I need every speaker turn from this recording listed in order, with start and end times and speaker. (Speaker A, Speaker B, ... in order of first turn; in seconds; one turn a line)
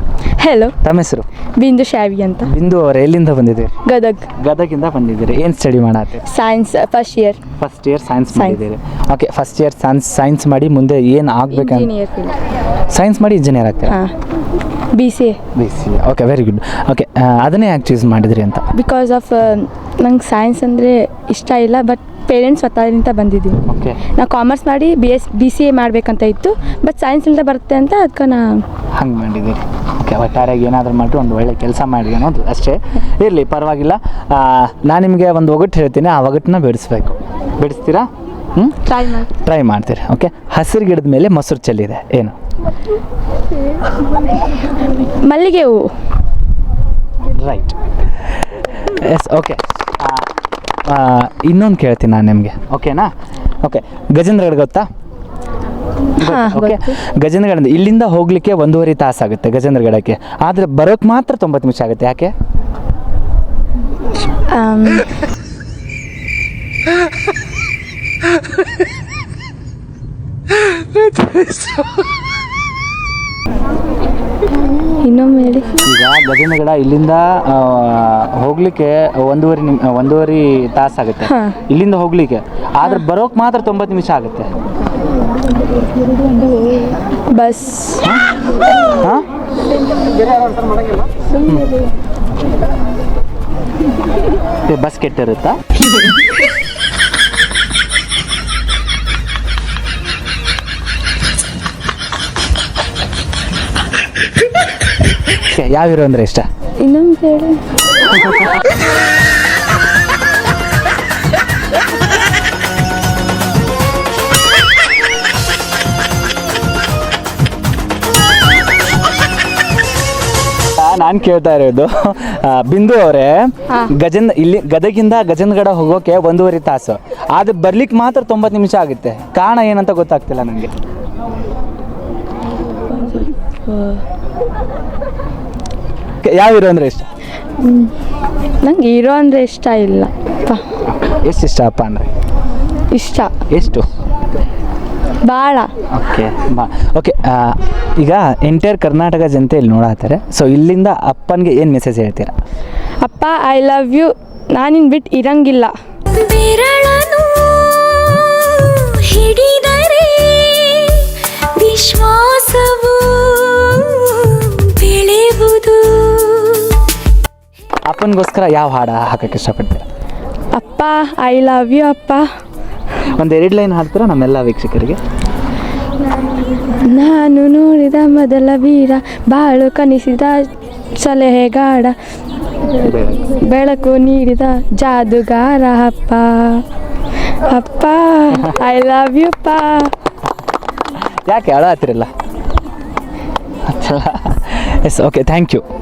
Speaker A: 0.4-0.8
Speaker B: 0.8-1.3
Speaker A: 1.6-2.5
Speaker B: 2.5-3.7
Speaker A: 3.9-4.3
Speaker B: 4.3-6.2
Speaker A: 6.3-7.4
Speaker B: 7.6-11.9
Speaker A: 11.5-12.4
Speaker B: 12.9-14.0
Speaker A: 14.9-15.4
Speaker B: 15.5-18.7
Speaker A: 18.7-28.6
Speaker B: 23.7-24.0
Speaker B: 29.0-42.3
Speaker A: 38.9-39.3
Speaker A: 45.0-45.9
Speaker B: 47.3-47.8
Speaker B: 48.8-50.3
Speaker B: 50.8-54.9
Speaker B: 56.2-62.3
Speaker A: 56.2-57.0
Speaker A: 64.4-65.1
Speaker A: 75.0-75.7
Speaker B: 75.8-84.5
Speaker A: 81.3-81.6
Speaker A: 87.3-88.0
Speaker B: 89.0-89.2
Speaker B: 94.7-95.7
Speaker B: 105.3-106.5
Speaker A: 106.8-107.6
Speaker B: 108.1-108.5
Speaker B: 120.8-130.8
Speaker A: 132.9-134.0
Speaker B: 136.2-137.1
Speaker A: 137.6-137.9
Speaker A: 138.6-140.6
Speaker B: 140.8-142.1
Speaker A: 142.9-143.3
Speaker B: 143.5-143.9
Speaker A: 145.2-145.7
Speaker B: 145.9-152.3
Speaker A: 153.0-155.7
Speaker C: 156.1-166.9
Speaker B: 167.9-169.8
Speaker A: 170.5-172.2
Speaker B: 173.1-175.0
Speaker A: 176.8-182.0
Speaker B: 182.8-183.2
Speaker A: 183.2-186.7
Speaker A: 187.3-189.9
Speaker B: 188.3-188.6
Speaker B: 191.0-192.1
Speaker B: 193.7-195.6